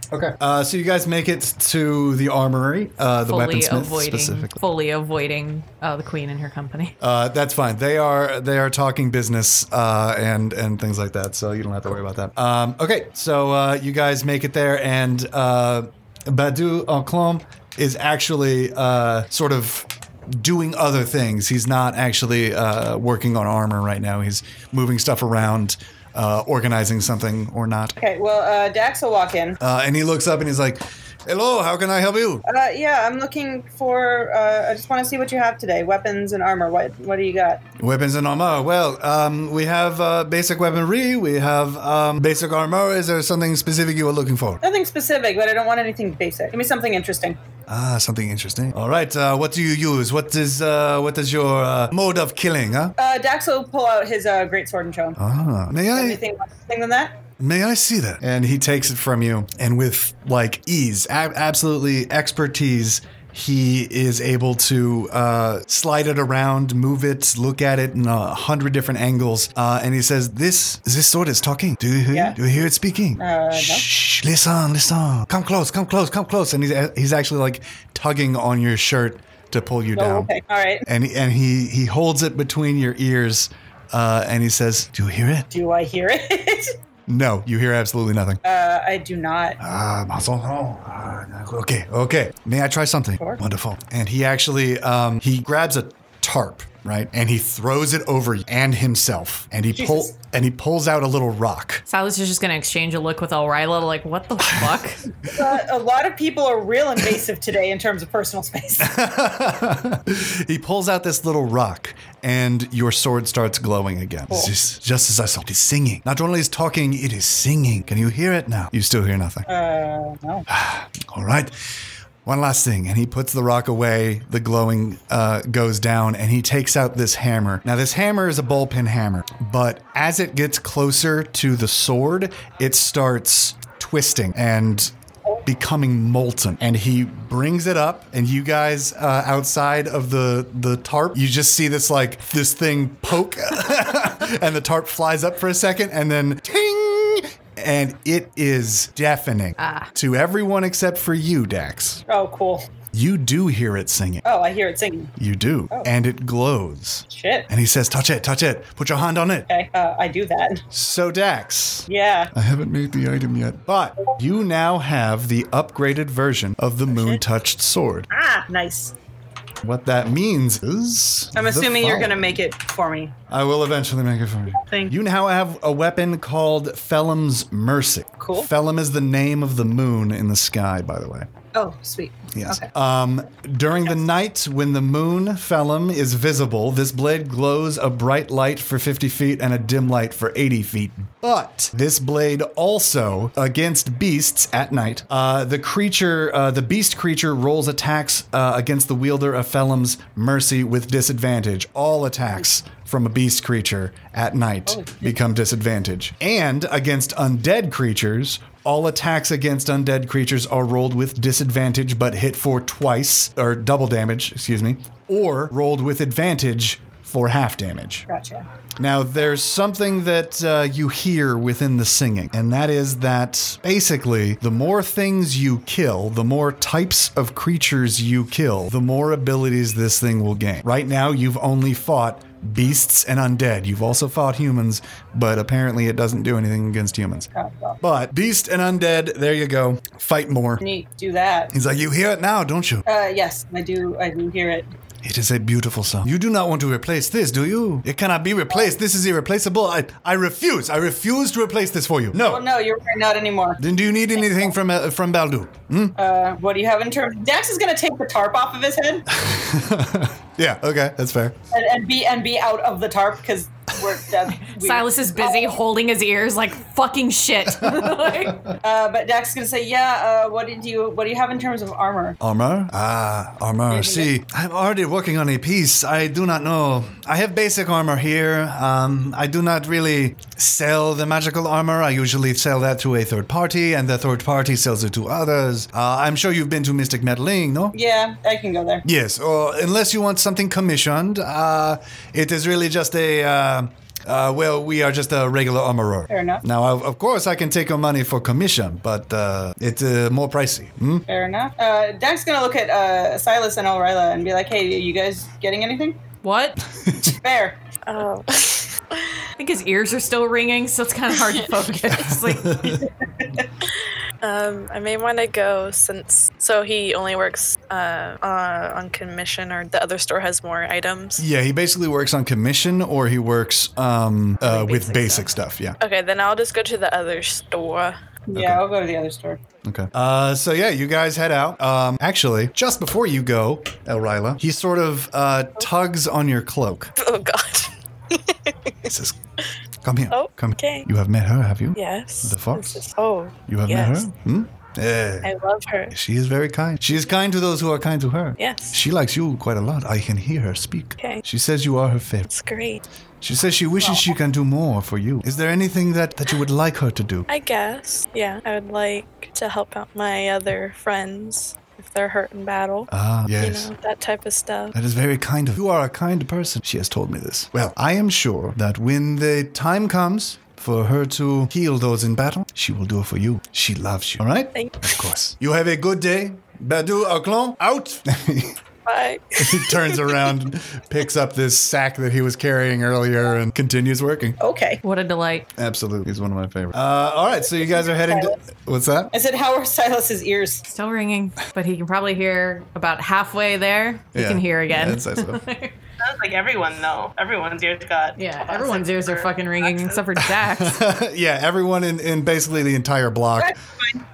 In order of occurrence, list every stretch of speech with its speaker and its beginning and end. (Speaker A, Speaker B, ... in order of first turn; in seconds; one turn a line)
Speaker A: 0.1-4.6
Speaker B: 3.3-7.0
Speaker A: 7.0-28.0
Speaker C: 28.0-29.6
Speaker A: 29.6-32.4
Speaker C: 32.5-37.6
Speaker A: 37.8-44.6
Speaker C: 44.6-47.4
Speaker A: 47.7-52.9
Speaker C: 53.0-55.2
Speaker A: 55.2-56.2
Speaker C: 55.9-57.2
Speaker A: 57.4-80.3
Speaker C: 72.1-72.4
Speaker C: 73.2-73.8
Speaker C: 79.9-80.8
Speaker A: 80.8-85.5
Speaker C: 85.5-86.7
Speaker A: 87.1-88.4
Speaker C: 88.4-89.6
Speaker A: 89.6-101.8
Speaker C: 99.7-100.1
Speaker B: 101.8-105.0
Speaker A: 104.5-104.8
Speaker C: 105.2-108.9
Speaker A: 108.8-119.5
Speaker C: 119.5-120.5
Speaker A: 120.5-121.5
Speaker A: 122.2-152.0
Speaker B: 149.6-149.9
Speaker C: 152.1-152.7
Speaker A: 152.9-154.2
Speaker C: 154.2-155.1
Speaker A: 155.2-159.5
Speaker C: 157.1-157.5
Speaker C: 159.5-160.6
Speaker A: 160.7-168.1
Speaker C: 161.9-162.3
Speaker C: 166.9-167.2
Speaker C: 168.1-168.9
Speaker A: 169.6-172.4
Speaker C: 171.3-173.2
Speaker A: 173.3-181.3
Speaker C: 174.6-174.9
Speaker C: 178.2-178.5
Speaker C: 181.5-182.7
Speaker A: 182.3-218.1
Speaker C: 204.7-205.1
Speaker C: 218.1-218.5
Speaker A: 218.8-237.3
Speaker C: 237.3-237.8
Speaker A: 237.8-240.6
Speaker C: 240.6-241.5
Speaker A: 241.5-242.8
Speaker C: 242.8-244.7
Speaker A: 245.0-252.5
Speaker C: 252.3-253.6
Speaker A: 253.6-256.0
Speaker C: 256.0-259.1
Speaker A: 259.1-261.4
Speaker C: 261.5-265.5
Speaker B: 264.3-268.5
Speaker A: 267.6-268.5
Speaker C: 268.6-272.2
Speaker A: 272.2-287.8
Speaker C: 273.7-274.1
Speaker C: 287.7-288.8
Speaker A: 288.8-301.1
Speaker C: 296.1-296.4
Speaker C: 301.1-306.0
Speaker B: 306.2-306.6
Speaker A: 306.8-307.1
Speaker C: 307.0-307.6
Speaker D: 307.8-309.2
Speaker B: 309.4-312.8
Speaker A: 312.2-312.9
Speaker D: 314.2-321.2
Speaker A: 321.2-325.8
Speaker B: 324.4-325.3
Speaker D: 325.8-327.9
Speaker C: 328.3-329.4
Speaker A: 328.3-328.6
Speaker A: 329.6-336.9
Speaker D: 337.0-338.8
Speaker A: 338.9-339.2
Speaker A: 339.8-342.8
Speaker D: 340.1-340.8
Speaker D: 341.7-344.1
Speaker A: 343.5-345.3
Speaker D: 345.2-345.9
Speaker A: 345.9-352.3
Speaker D: 348.4-348.8
Speaker D: 352.3-352.8
Speaker A: 353.2-357.3
Speaker D: 357.3-364.7
Speaker A: 362.9-363.7
Speaker A: 364.7-378.6
Speaker D: 374.5-374.9
Speaker D: 378.8-380.2
Speaker A: 379.4-384.4
Speaker C: 384.4-384.8
Speaker B: 384.8-385.5
Speaker A: 385.6-389.1
Speaker C: 387.9-388.3
Speaker C: 389.1-390.6
Speaker B: 390.6-395.7
Speaker A: 394.1-395.4
Speaker E: 396.0-400.2
Speaker B: 398.1-400.8
Speaker A: 400.3-403.6
Speaker C: 403.4-403.9